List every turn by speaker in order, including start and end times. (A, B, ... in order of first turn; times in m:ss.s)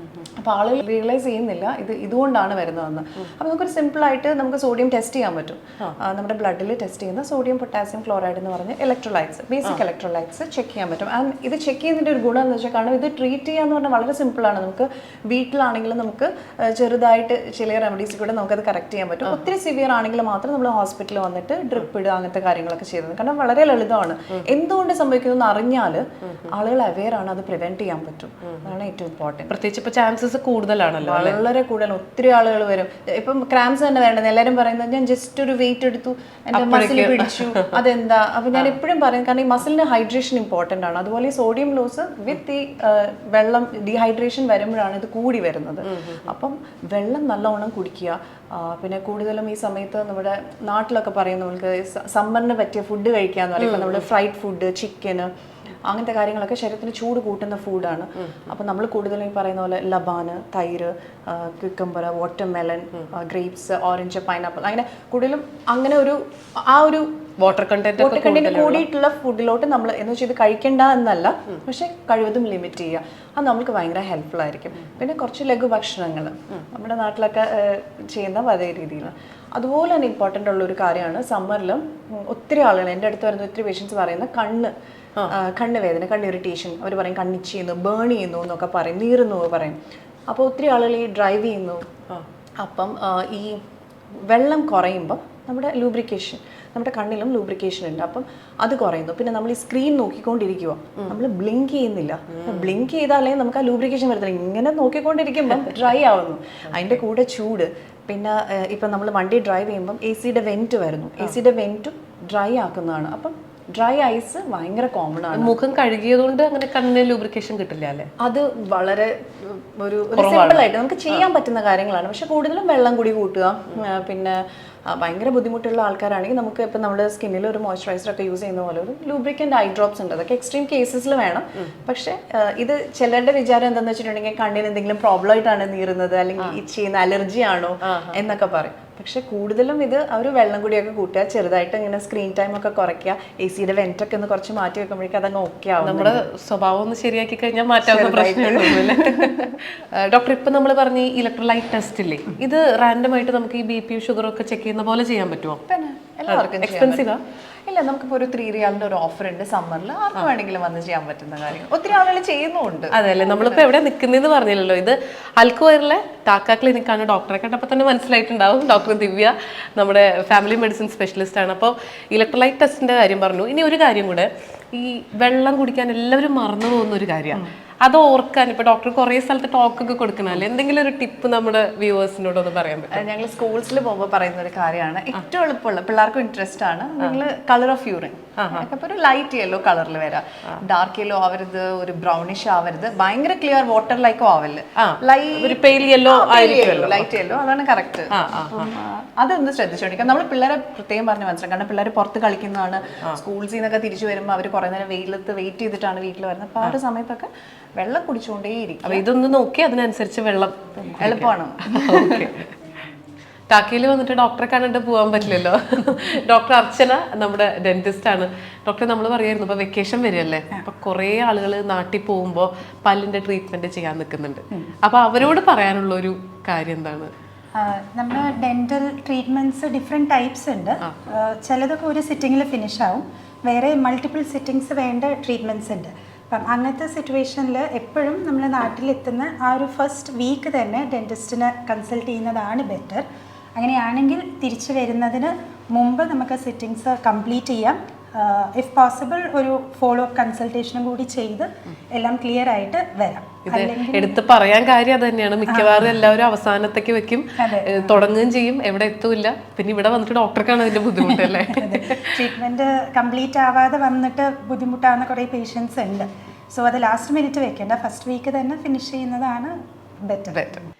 0:00.3-0:29.5 A
0:29.5-0:31.4 B
0:31.0-0:55.3 A
0:36.5-0:37.7 B
0:45.8-0:46.2 B
0:53.6-0:54.0 B
0:55.9-1:07.2 A
1:07.4-1:08.8 B
1:07.9-1:24.7 A
1:25.3-1:29.8 A
1:30.3-1:31.8 A
1:32.6-1:33.6 A
1:34.3-1:55.6 A
1:42.3-1:42.7 B
1:55.3-1:58.1 B
1:58.2-2:26.2 A
2:00.2-2:00.6 B
2:17.8-2:18.2 B
2:25.8-2:35.6 B
2:27.8-2:29.6 A
2:35.7-2:37.1 A
2:36.3-2:37.2 B
2:37.7-2:43.6 A
2:42.9-3:03.0 B
3:02.9-3:29.0 A
3:08.4-3:08.6 B
3:14.8-3:17.1 B
3:18.1-3:18.7 B
3:28.8-3:32.5 B
3:30.8-3:32.3 A
3:33.5-3:47.1 B
3:47.5-4:14.2 C
4:13.4-4:22.2 B
4:15.5-4:15.7 C
4:17.4-4:17.9 C
4:21.2-4:30.7 C
4:30.3-4:30.6 B